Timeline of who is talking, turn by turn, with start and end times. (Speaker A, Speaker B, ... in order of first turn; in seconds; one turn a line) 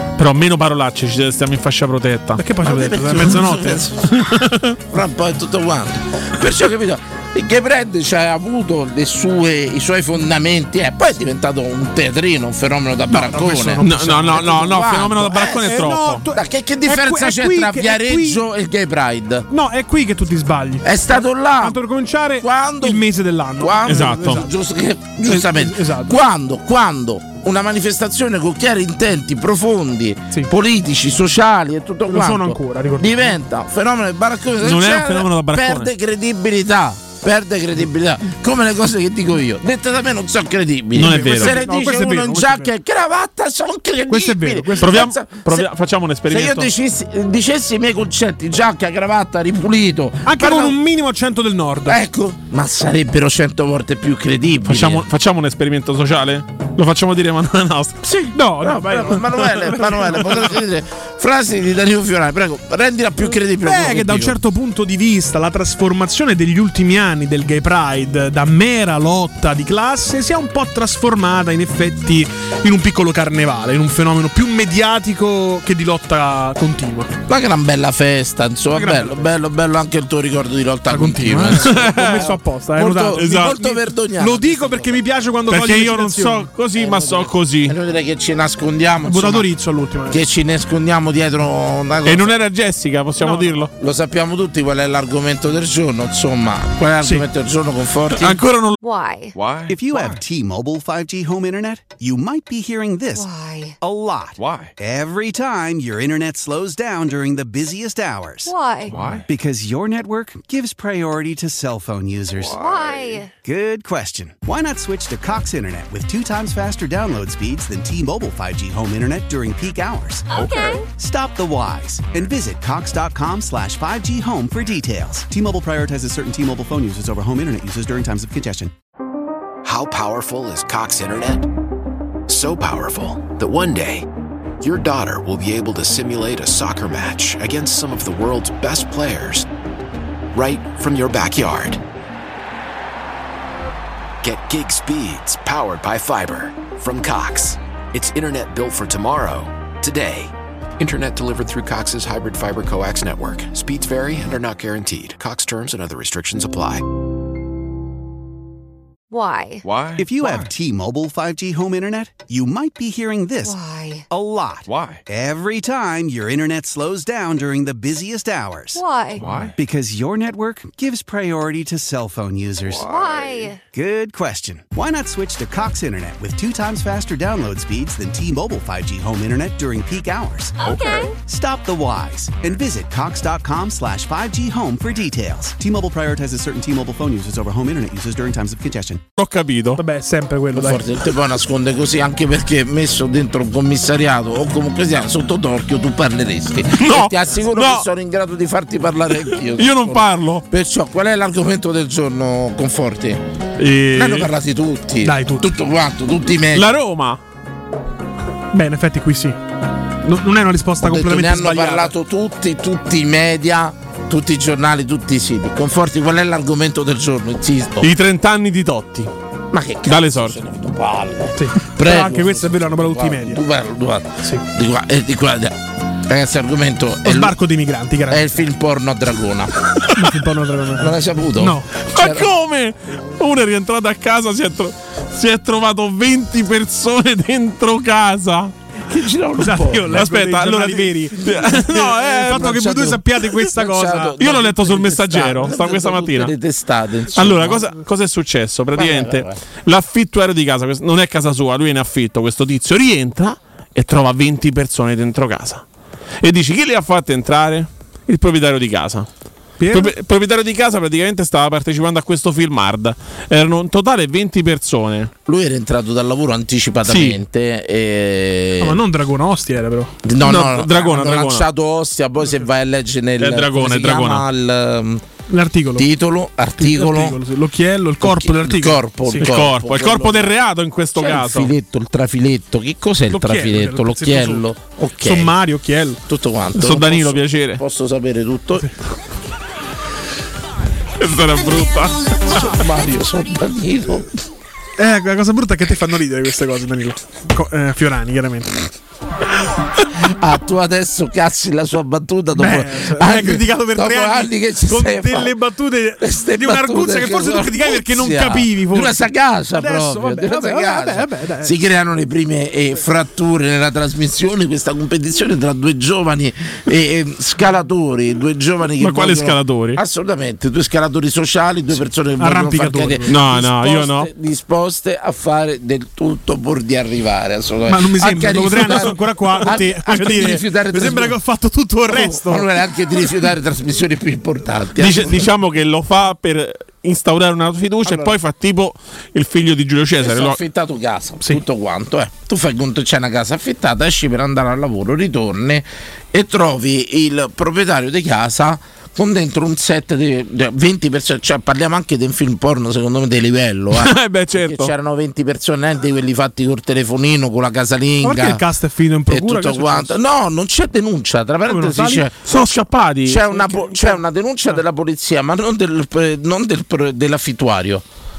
Speaker A: 0.2-2.5
Speaker B: 2.4-3.9
Speaker C: 2.6-4.1
Speaker A: 4.1-4.8
Speaker C: 4.9-19.5
Speaker B: 13.1-14.4
Speaker A: 13.8-16.2
Speaker B: 15.6-18.4
Speaker B: 19.5-24.5
Speaker C: 20.8-21.8
Speaker C: 22.4-23.1
Speaker C: 23.6-45.7
Speaker A: 23.8-24.4
Speaker B: 25.2-26.1
Speaker B: 32.1-33.3
Speaker A: 34.6-35.9
Speaker A: 41.0-41.6
Speaker B: 41.0-42.7
Speaker B: 44.1-45.0
Speaker A: 44.8-46.7
Speaker C: 46.3-50.8
Speaker B: 50.2-52.0
Speaker C: 51.9-55.0
Speaker A: 54.6-58.0
Speaker C: 58.0-64.4
Speaker B: 58.3-59.6
Speaker A: 59.7-60.3
Speaker B: 63.6-77.1
Speaker C: 77.3-85.0
Speaker B: 78.7-79.3
Speaker B: 80.9-86.5
Speaker A: 81.8-82.2
Speaker A: 83.1-83.6
Speaker A: 85.5-87.7
Speaker C: 86.8-89.5
Speaker B: 89.0-90.2
Speaker C: 90.1-92.3
Speaker A: 92.0-93.7
Speaker B: 93.2-93.6
Speaker C: 93.8-98.4
Speaker B: 97.0-97.2
Speaker A: 98.2-98.8
Speaker D: 98.8-99.3
Speaker E: 99.3-100.2
Speaker F: 99.7-103.3
Speaker D: 103.1-103.7
Speaker F: 103.8-108.5
Speaker E: 104.4-104.8
Speaker D: 108.5-109.0
Speaker E: 108.8-109.2
Speaker F: 109.2-112.7
Speaker D: 112.6-113.3
Speaker E: 112.7-113.2
Speaker F: 113.4-120.3
Speaker F: 121.0-128.7
Speaker G: 129.6-131.5
Speaker G: 132.3-134.1
Speaker G: 134.6-139.5
Speaker G: 140.3-141.8
Speaker G: 144.2-156.8
Speaker D: 159.1-159.6
Speaker E: 159.6-160.5
Speaker F: 159.9-163.6
Speaker D: 163.4-164.0
Speaker F: 164.1-168.8
Speaker E: 164.6-165.0
Speaker D: 168.7-169.3
Speaker E: 169.1-169.6
Speaker F: 169.5-173.0
Speaker D: 172.9-173.6
Speaker E: 173.1-173.5
Speaker F: 173.7-180.6
Speaker F: 181.2-189.0
Speaker A: 189.2-189.8
Speaker B: 189.8-190.8
Speaker C: 190.5-203.2
Speaker A: 196.8-197.8
Speaker A: 199.6-200.4
Speaker A: 203.6-204.3
Speaker C: 203.9-206.7
Speaker B: 205.0-205.5
Speaker A: 206.5-207.2
Speaker B: 208.5-209.4
Speaker B: 210.0-211.9
Speaker C: 210.8-217.9
Speaker A: 217.8-219.1
Speaker C: 219.5-227.4
Speaker A: 219.9-220.3
Speaker B: 221.4-223.4
Speaker B: 227.0-228.3
Speaker C: 228.1-229.5
Speaker B: 229.9-231.7
Speaker C: 230.8-232.3
Speaker A: 231.9-238.5
Speaker C: 238.9-240.1
Speaker B: 239.4-244.2
Speaker A: 239.9-242.7
Speaker C: 241.5-247.7
Speaker A: 244.2-246.3
Speaker A: 247.1-255.6
Speaker C: 248.7-249.4
Speaker A: 256.2-259.1
Speaker B: 259.6-259.9
Speaker A: 259.7-265.1
Speaker C: 265.3-268.8
Speaker A: 266.9-267.2
Speaker B: 268.6-269.9
Speaker C: 270.0-275.0
Speaker A: 270.2-271.4
Speaker A: 273.2-274.2
Speaker B: 275.3-275.9
Speaker C: 275.8-277.2
Speaker B: 276.6-279.3
Speaker C: 278.0-280.3
Speaker A: 279.2-281.5
Speaker C: 280.9-285.3
Speaker B: 283.1-284.4
Speaker B: 285.0-286.0
Speaker C: 286.1-288.7
Speaker A: 286.6-287.6
Speaker A: 291.0-292.5
Speaker C: 292.3-294.1
Speaker B: 294.8-298.5
Speaker C: 300.0-305.3
Speaker B: 302.4-311.5
Speaker C: 306.0-331.2
Speaker A: 318.8-319.8
Speaker B: 322.2-323.1
Speaker A: 323.1-324.1
Speaker B: 327.7-332.5
Speaker C: 331.9-335.3
Speaker A: 334.8-340.4
Speaker C: 337.9-338.1
Speaker C: 340.0-358.4
Speaker A: 353.7-354.7
Speaker B: 358.0-359.9
Speaker C: 359.1-362.1
Speaker B: 361.5-362.0
Speaker A: 362.2-363.5
Speaker C: 363.0-367.8